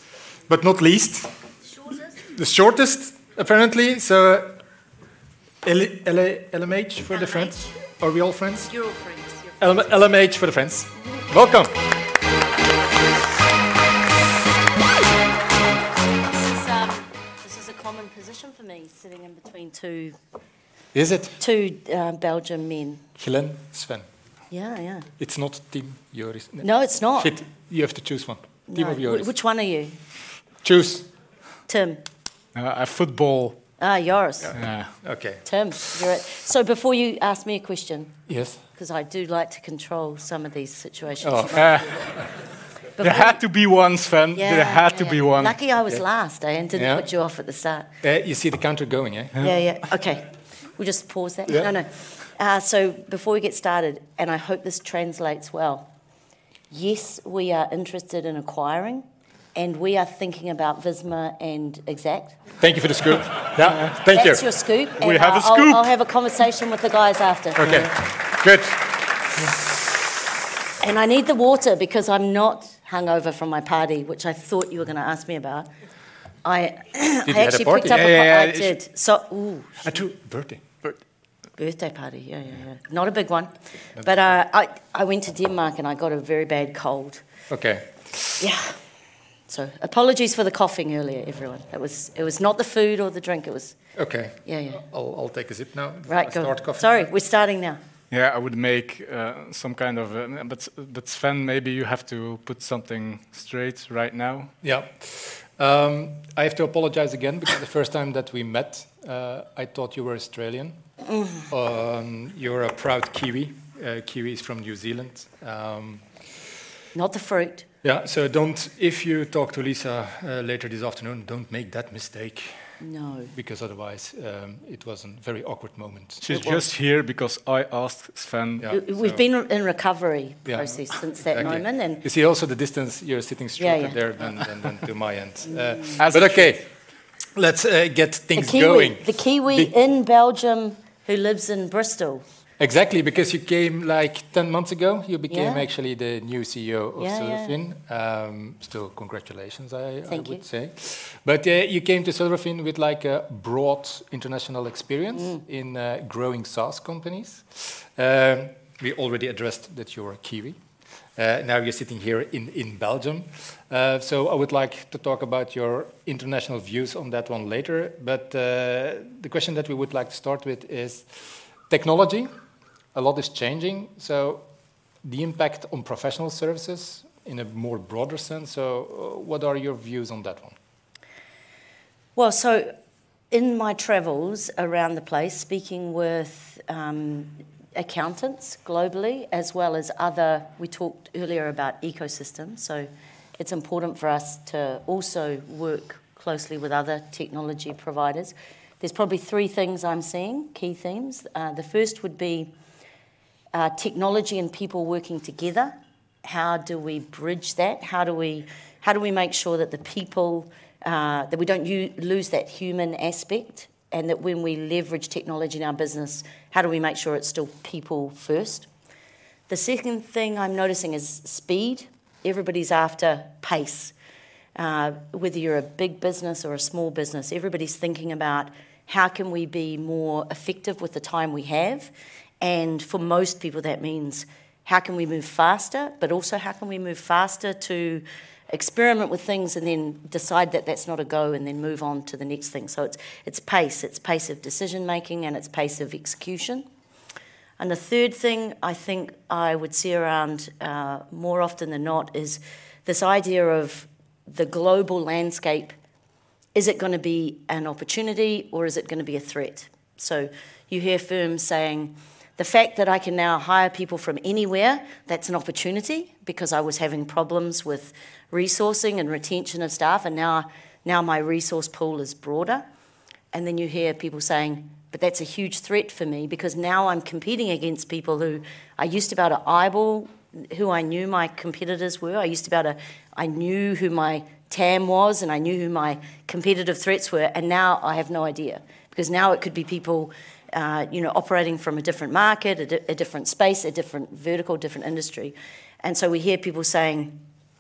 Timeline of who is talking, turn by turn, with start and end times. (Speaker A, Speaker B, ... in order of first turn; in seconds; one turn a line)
Speaker A: 0.5-1.4
Speaker A: 2.2-4.6
Speaker A: 5.6-8.7
Speaker B: 7.2-7.7
Speaker B: 8.7-9.9
Speaker A: 9.6-11.8
Speaker B: 16.1-20.2
Speaker A: 20.9-21.4
Speaker B: 21.4-23.1
Speaker A: 23.2-24.1
Speaker B: 24.5-25.1
Speaker A: 25.2-29.3
Speaker B: 26.6-27.4
Speaker B: 28.7-29.9
Speaker A: 30.6-31.1
Speaker B: 31.7-32.0
Speaker C: 32.5-33.6
Speaker B: 33.8-34.6
Speaker C: 34.5-35.0
Speaker A: 35.0-35.4
Speaker B: 35.4-38.2
Speaker A: 38.3-38.6
Speaker B: 38.7-41.8
Speaker A: 41.2-42.3
Speaker C: 41.5-42.1
Speaker B: 43.0-43.4
Speaker C: 43.0-45.6
Speaker B: 44.4-47.9
Speaker A: 46.7-47.1
Speaker A: 48.0-49.5
Speaker B: 49.4-55.9
Speaker B: 56.7-62.4
Speaker A: 62.6-64.4
Speaker B: 64.0-67.8
Speaker C: 65.0-65.8
Speaker A: 67.6-68.9
Speaker B: 70.8-75.7
Speaker B: 76.4-79.8
Speaker A: 77.2-78.0
Speaker C: 77.9-78.8
Speaker A: 79.8-80.7
Speaker B: 81.6-87.2
Speaker A: 87.5-88.3
Speaker B: 88.4-88.8
Speaker B: 89.5-93.8
Speaker A: 94.0-96.9
Speaker B: 94.5-94.8
Speaker B: 96.1-97.8
Speaker C: 98.1-104.5
Speaker A: 104.6-110.8
Speaker A: 111.5-116.1
Speaker B: 116.9-117.7
Speaker A: 117.8-122.7
Speaker B: 122.8-123.3
Speaker A: 123.3-126.6
Speaker C: 126.2-128.9
Speaker A: 128.6-129.2
Speaker B: 128.7-132.0
Speaker A: 130.5-136.7
Speaker B: 133.6-134.0
Speaker B: 135.5-136.0
Speaker C: 136.0-136.5
Speaker A: 137.4-139.7
Speaker B: 138.3-142.2
Speaker A: 142.6-160.6
Speaker B: 145.3-145.7
Speaker B: 147.0-147.6
Speaker B: 150.1-150.4
Speaker B: 155.2-155.4
Speaker A: 161.2-172.3
Speaker A: 172.9-174.5
Speaker A: 175.0-180.6
Speaker B: 182.2-182.7
Speaker B: 183.3-202.5
Speaker B: 203.5-218.7
Speaker B: 219.5-223.9
Speaker B: 224.6-246.7
Speaker B: 247.6-255.7
Speaker B: 256.6-272.6
Speaker B: 273.3-297.2